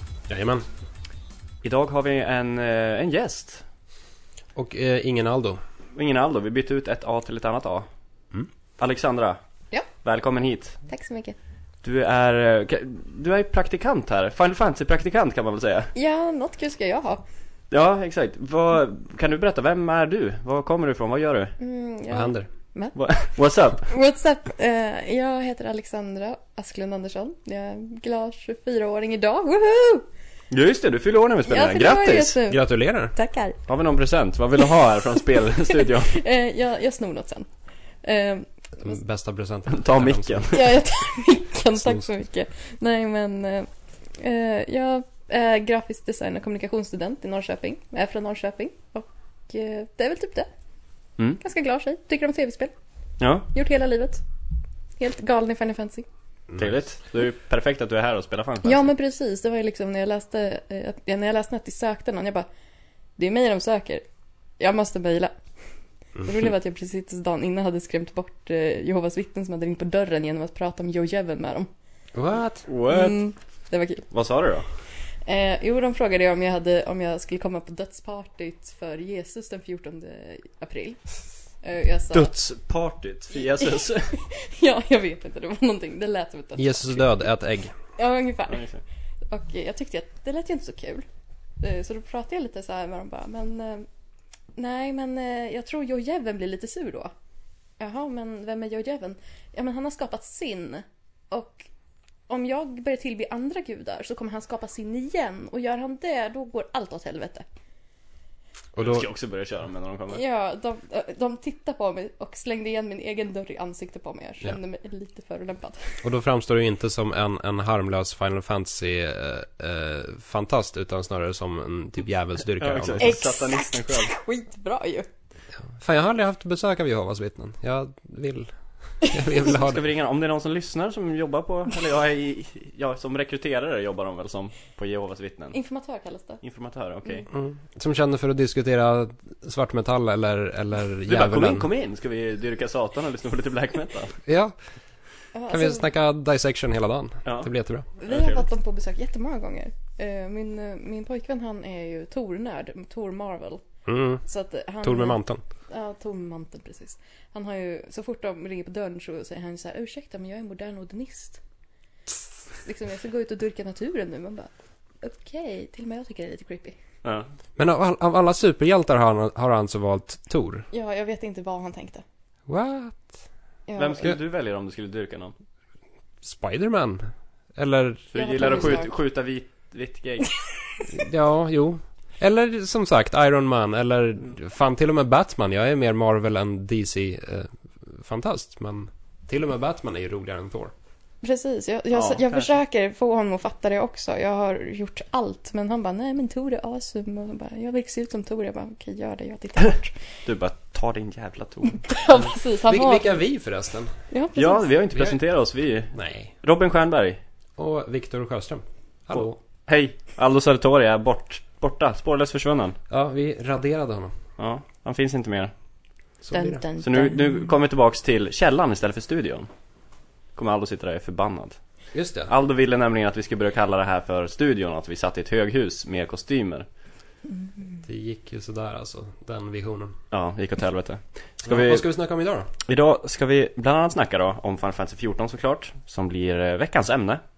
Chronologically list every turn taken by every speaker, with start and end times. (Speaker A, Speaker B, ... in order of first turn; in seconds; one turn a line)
Speaker A: 0.3-0.6
Speaker B: 1.6-3.6
Speaker A: 4.5-5.6
Speaker B: 5.9-7.8
Speaker B: 8.8-9.4
Speaker B: 9.9-10.8
Speaker C: 10.9-11.3
Speaker B: 11.8-15.9
Speaker C: 15.9-17.2
Speaker B: 17.7-21.5
Speaker C: 21.6-22.9
Speaker A: 22.1-22.5
Speaker B: 22.9-23.9
Speaker C: 23.8-30.1
Speaker B: 30.5-32.4
Speaker C: 31.5-33.6
Speaker A: 32.5-33.1
Speaker B: 33.6-36.2
Speaker C: 35.7-37.5
Speaker C: 38.0-38.5
Speaker A: 38.8-40.6
Speaker B: 39.7-40.7
Speaker C: 40.5-50.5
Speaker C: 51.4-52.7
Speaker B: 53.2-53.5
Speaker C: 53.5-54.2
Speaker C: 55.0-56.0
Speaker A: 56.5-56.8
Speaker B: 56.6-58.9
Speaker C: 58.6-62.5
Speaker C: 63.2-64.0
Speaker C: 64.6-65.3
Speaker C: 66.2-71.7
Speaker A: 72.1-72.7
Speaker B: 72.7-73.2
Speaker C: 72.8-74.1
Speaker B: 74.1-74.7
Speaker C: 75.2-81.0
Speaker C: 81.6-82.3
Speaker B: 82.1-84.2
Speaker C: 83.5-87.0
Speaker A: 86.5-87.7
Speaker C: 88.0-88.7
Speaker B: 88.5-88.8
Speaker C: 89.3-91.0
Speaker C: 91.6-93.9
Speaker C: 94.5-97.1
Speaker C: 97.8-101.7
Speaker C: 102.3-107.4
Speaker A: 108.7-109.1
Speaker B: 108.8-110.2
Speaker C: 110.1-116.0
Speaker A: 116.0-123.1
Speaker B: 122.6-124.1
Speaker C: 123.0-125.1
Speaker A: 125.7-129.8
Speaker B: 129.4-135.6
Speaker C: 135.5-136.4
Speaker B: 136.4-137.3
Speaker A: 137.3-141.7
Speaker B: 141.1-144.2
Speaker A: 144.2-144.6
Speaker C: 145.3-145.8
Speaker A: 145.5-147.9
Speaker B: 147.2-147.5
Speaker C: 148.0-153.6
Speaker B: 148.0-148.4
Speaker A: 153.8-154.2
Speaker C: 154.2-161.4
Speaker A: 154.8-155.4
Speaker C: 162.6-166.8
Speaker A: 167.6-170.7
Speaker C: 170.7-172.0
Speaker A: 172.5-173.2
Speaker C: 173.7-174.1
Speaker B: 173.8-175.3
Speaker A: 176.2-178.8
Speaker B: 178.1-180.4
Speaker C: 178.1-178.9
Speaker A: 180.9-190.7
Speaker C: 191.2-200.0
Speaker B: 191.9-192.5
Speaker B: 200.2-201.8
Speaker C: 201.7-203.2
Speaker A: 202.4-204.0
Speaker C: 204.1-204.7
Speaker B: 204.3-207.2
Speaker A: 205.9-206.3
Speaker A: 207.6-209.4
Speaker B: 209.1-212.8
Speaker A: 212.9-214.2
Speaker B: 214.4-215.5
Speaker A: 216.2-216.6
Speaker C: 216.3-217.4
Speaker B: 216.8-219.5
Speaker B: 220.3-221.6
Speaker A: 221.9-222.3
Speaker B: 222.3-226.7
Speaker A: 227.8-230.0
Speaker B: 230.1-231.8
Speaker A: 231.4-232.5
Speaker B: 232.6-237.2